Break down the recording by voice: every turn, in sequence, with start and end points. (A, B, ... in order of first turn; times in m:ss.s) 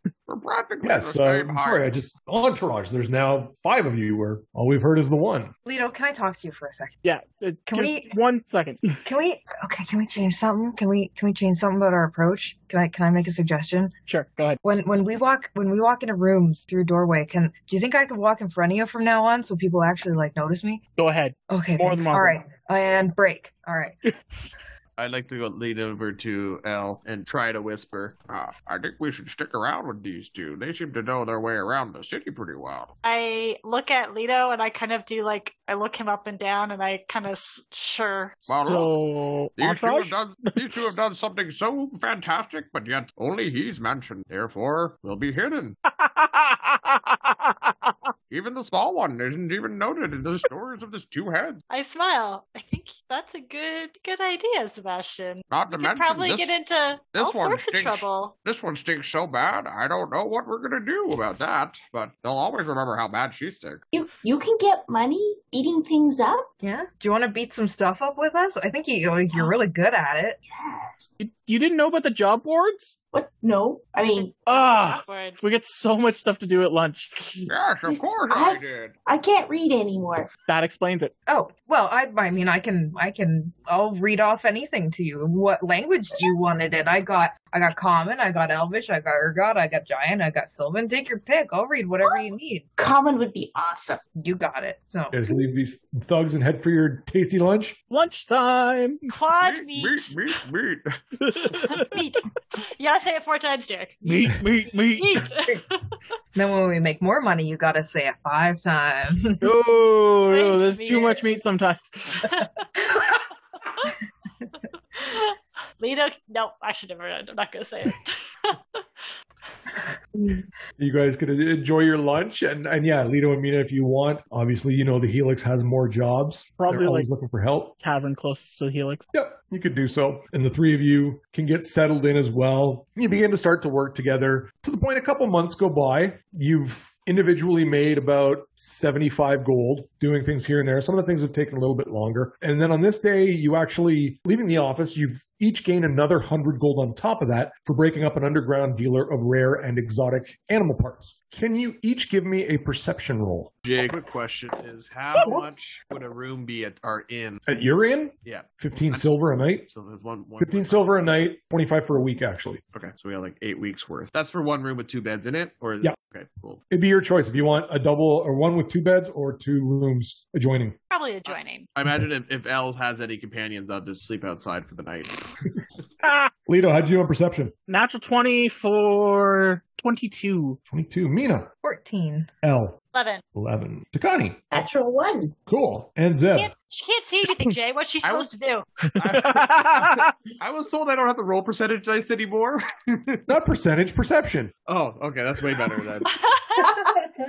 0:00.3-0:01.9 A
0:00.8-0:05.5 B
0:05.6-0:07.0 C
0:07.0-0:09.0 D
0:07.7-0:08.2 C
0:09.0-0:13.9 C
0:14.1-0:14.6 D
0:14.6-0:20.8 C
0:21.0-0:22.4 D
0:21.5-0:24.0 C
0:25.0-0:32.9 A
0:33.0-0:38.4 E
0:38.5-0:38.9 A
0:38.5-0:41.0 D
0:39.6-0:45.8 A
0:45.9-0:48.0 D
0:48.3-0:51.6 A
0:51.7-0:58.4 E
0:55.5-0:56.5 A
0:57.1-1:03.8 A
1:03.9-1:06.5 F
1:06.6-1:10.4 C
1:10.5-1:11.2 F
1:11.2-1:13.0 D
1:13.1-1:14.4 F
1:14.1-1:15.5 E
1:14.4-1:17.5 D
1:17.5-1:18.9 A
1:17.8-1:20.3 F
1:20.5-1:21.1 D
1:21.3-1:32.6 C
1:32.8-1:34.0 F
1:34.2-1:35.3 C
1:35.1-1:37.8 B
1:37.9-1:39.0 D
1:39.1-1:40.2 E
1:39.3-1:40.9 A
1:41.2-1:42.0 D
1:41.7-1:44.0 E
1:44.0-1:45.2 D
1:44.9-1:46.0 E
1:46.3-1:49.5 C
1:49.4-1:52.3 D
1:50.3-1:51.4 E
1:52.3-1:54.0 E
1:54.9-1:58.8 E
2:00.8-2:07.7 B
2:06.6-2:07.1 D
2:07.8-2:09.1 D
2:09.1-2:33.6 B
2:33.6-2:37.4 A
2:37.5-2:39.7 B
2:38.2-2:39.1 A
2:39.6-2:41.0 A
2:40.4-2:42.6 B
2:42.7-2:46.6 A
2:46.7-2:50.8 B
2:50.9-2:51.7 E
2:51.2-2:55.3 A
2:56.0-2:56.3 D
2:56.5-2:57.5 B
2:57.7-3:00.6 D
3:00.7-3:01.5 B
3:01.6-3:02.3 C
3:02.4-3:02.8 B
3:02.9-3:03.2 E
3:03.3-3:04.4 B
3:04.5-3:05.4 F
3:05.5-3:06.5 B
3:06.3-3:08.7 E
3:08.0-3:08.3 A
3:08.9-3:13.2 A
3:09.0-3:10.1 D
3:13.3-3:14.5 B
3:14.7-3:16.1 A
3:16.0-3:17.0 E